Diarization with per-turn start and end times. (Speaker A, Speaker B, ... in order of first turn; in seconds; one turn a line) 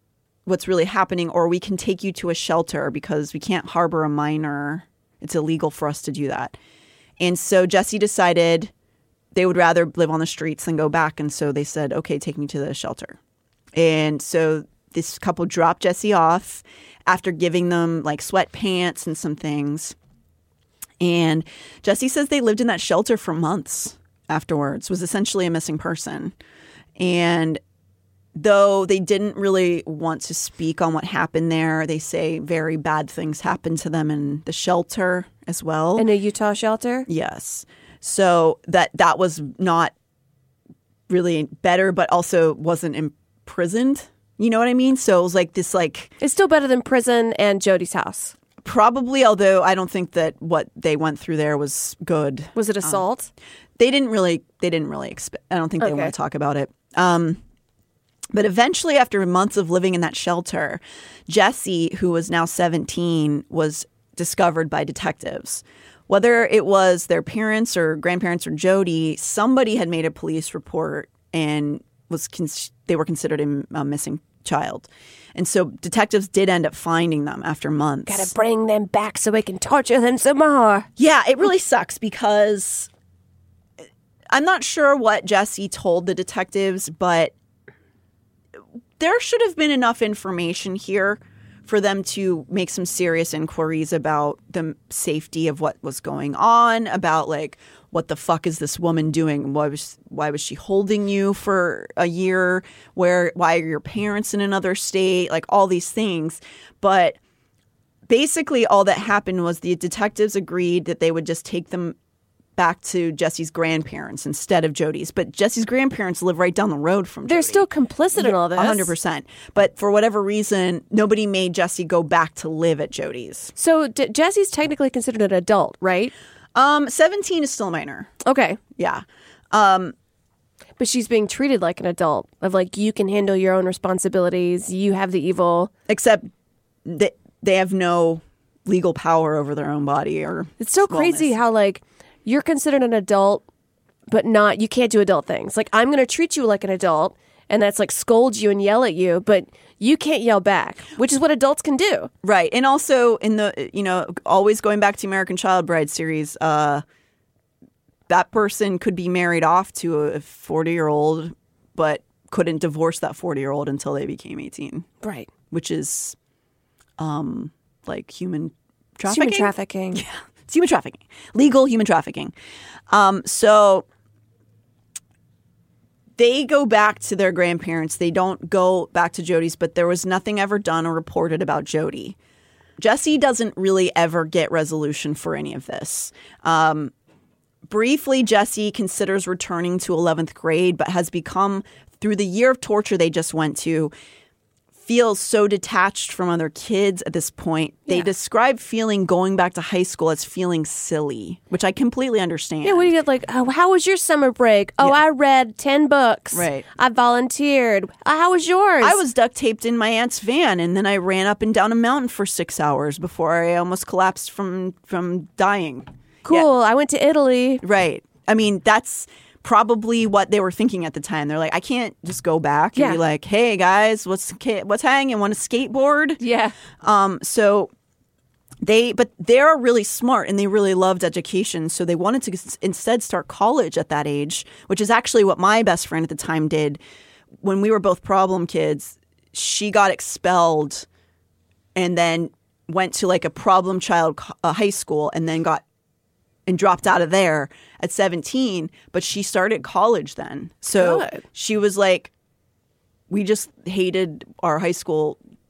Speaker A: 0.5-6.6
Speaker A: 7.2-8.7
Speaker A: 9.3-13.2
Speaker A: 13.8-20.0
Speaker A: 21.0-26.4
Speaker A: 27.0-27.6
Speaker A: 28.4-36.1
Speaker B: 36.0-37.1
Speaker A: 37.1-39.9
Speaker A: 41.1-46.1
Speaker B: 46.2-48.3
Speaker A: 48.6-53.0
Speaker B: 52.6-53.3
Speaker A: 53.8-57.4
Speaker B: 55.8-56.1
Speaker A: 58.3-78.3
Speaker B: 78.1-80.9
Speaker A: 81.0-82.9
Speaker A: 84.3-87.3
Speaker A: 89.0-107.2
Speaker A: 108.1-112.0
Speaker A: 112.6-123.5
Speaker B: 117.3-118.9
Speaker B: 123.6-126.1
Speaker A: 126.5-128.1
Speaker B: 128.2-128.6
Speaker A: 128.8-129.9
Speaker B: 130.8-135.7
Speaker A: 135.9-136.3
Speaker A: 136.8-141.3
Speaker B: 140.6-143.4
Speaker B: 144.1-152.1
Speaker A: 152.2-156.8
Speaker A: 158.1-164.9
Speaker B: 165.0-165.3
Speaker A: 165.5-166.2
Speaker A: 167.0-172.3
Speaker B: 169.1-170.0
Speaker A: 172.9-173.9
Speaker A: 176.2-182.2
Speaker A: 182.8-186.9
Speaker A: 187.7-193.9
Speaker A: 194.8-202.9
Speaker B: 202.6-209.0
Speaker A: 206.3-206.7
Speaker A: 208.8-216.5
Speaker B: 216.3-217.6
Speaker A: 217.6-226.2
Speaker B: 226.2-226.6
Speaker A: 226.8-227.7
Speaker A: 228.6-236.8
Speaker A: 237.4-240.9
Speaker A: 241.8-245.6
Speaker A: 246.5-252.1
Speaker B: 250.8-251.2
Speaker A: 253.1-255.2